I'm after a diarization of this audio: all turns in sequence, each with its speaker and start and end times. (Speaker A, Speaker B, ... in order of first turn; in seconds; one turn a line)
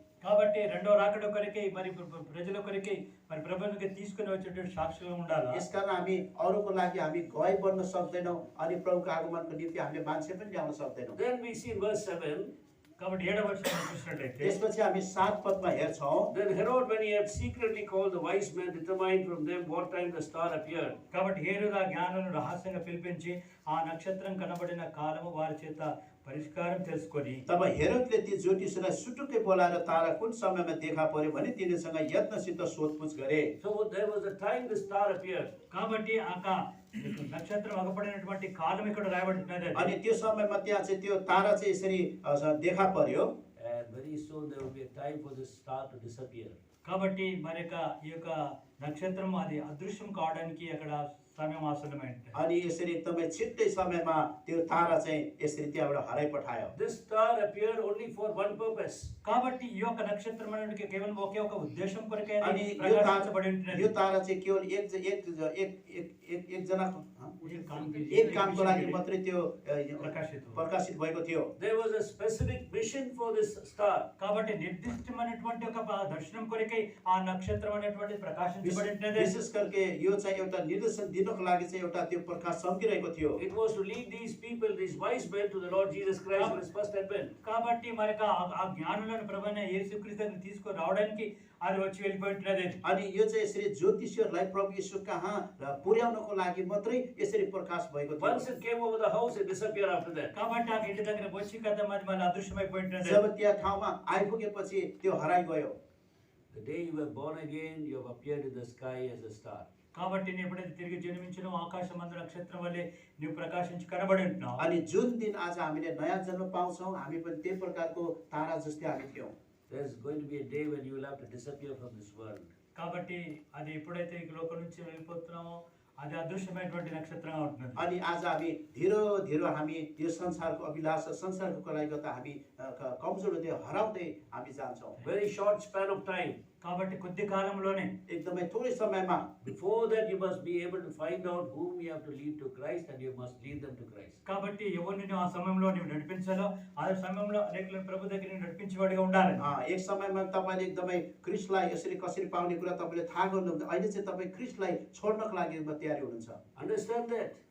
Speaker A: 0.2-5.6
Speaker B: 5.5-11.2
Speaker C: 11.2-12.5
Speaker A: 13.0-14.6
Speaker B: 14.4-16.3
Speaker C: 16.3-21.0
Speaker A: 21.1-27.4
Speaker B: 27.5-33.5
Speaker C: 33.6-35.5
Speaker A: 35.7-39.9
Speaker B: 39.7-43.3
Speaker C: 43.5-46.6
Speaker A: 46.8-52.4
Speaker B: 52.3-56.7
Speaker C: 56.7-59.1
Speaker A: 59.2-63.9
Speaker B: 62.4-67.4
Speaker A: 67.4-69.0
Speaker B: 68.1-71.5
Speaker A: 70.0-70.6
Speaker C: 71.6-74.1
Speaker A: 74.2-79.3
Speaker B: 78.6-83.4
Speaker C: 83.4-87.3
Speaker A: 86.3-86.6
Speaker A: 87.4-92.8
Speaker B: 92.8-98.5
Speaker C: 98.2-100.3
Speaker A: 100.3-103.2
Speaker B: 103.0-105.8
Speaker C: 106.5-109.7
Speaker A: 109.9-114.6
Speaker B: 114.6-119.3
Speaker C: 119.7-122.5
Speaker A: 122.8-127.8
Speaker B: 127.8-135.0
Speaker C: 135.0-136.4
Speaker A: 136.6-137.9
Speaker B: 138.1-139.3
Speaker C: 139.4-144.2
Speaker A: 144.2-149.5
Speaker B: 149.4-156.4
Speaker C: 156.6-157.4